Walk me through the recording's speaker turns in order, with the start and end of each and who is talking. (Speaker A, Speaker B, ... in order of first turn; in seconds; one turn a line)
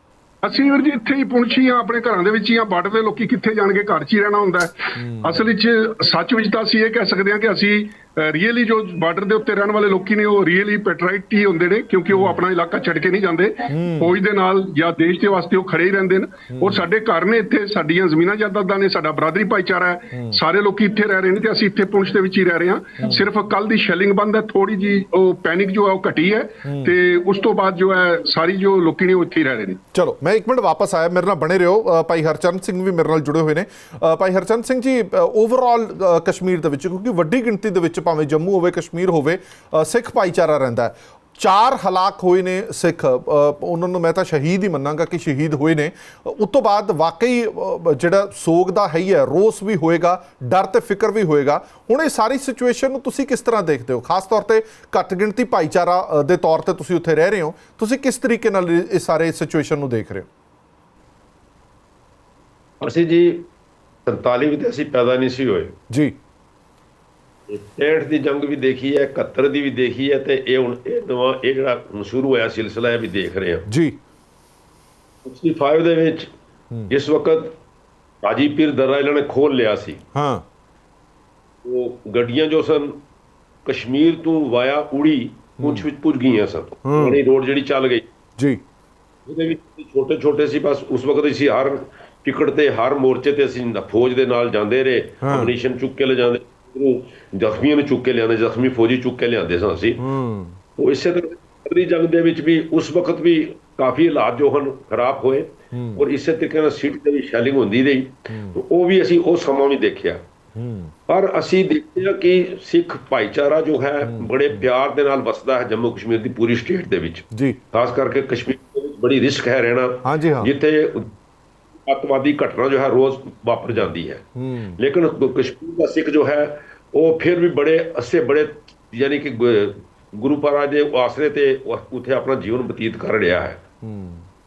Speaker A: 0.4-29.8
Speaker B: 5.0-5.4
Speaker B: 12.1-12.4
Speaker B: 13.7-14.1
Speaker B: 29.9-60.3
Speaker C: 62.8-63.5
Speaker C: 64.1-65.8
Speaker C: 67.5-73.7
Speaker B: 73.7-74.0
Speaker C: 75.2-76.3
Speaker C: 76.9-77.5
Speaker C: 78.2-80.0
Speaker B: 80.1-80.5
Speaker C: 81.6-83.0
Speaker C: 83.6-88.0
Speaker B: 86.8-87.2
Speaker C: 89.3-100.0
Speaker B: 95.2-95.5
Speaker B: 100.0-100.6
Speaker C: 100.8-110.2
Speaker B: 105.7-106.0
Speaker B: 110.5-110.9
Speaker C: 111.1-121.1
Speaker B: 114.1-114.6
Speaker B: 117.3-117.6
Speaker B: 120.0-120.5
Speaker C: 121.8-124.3
Speaker B: 124.4-124.8
Speaker C: 124.8-133.6
Speaker B: 133.8-134.2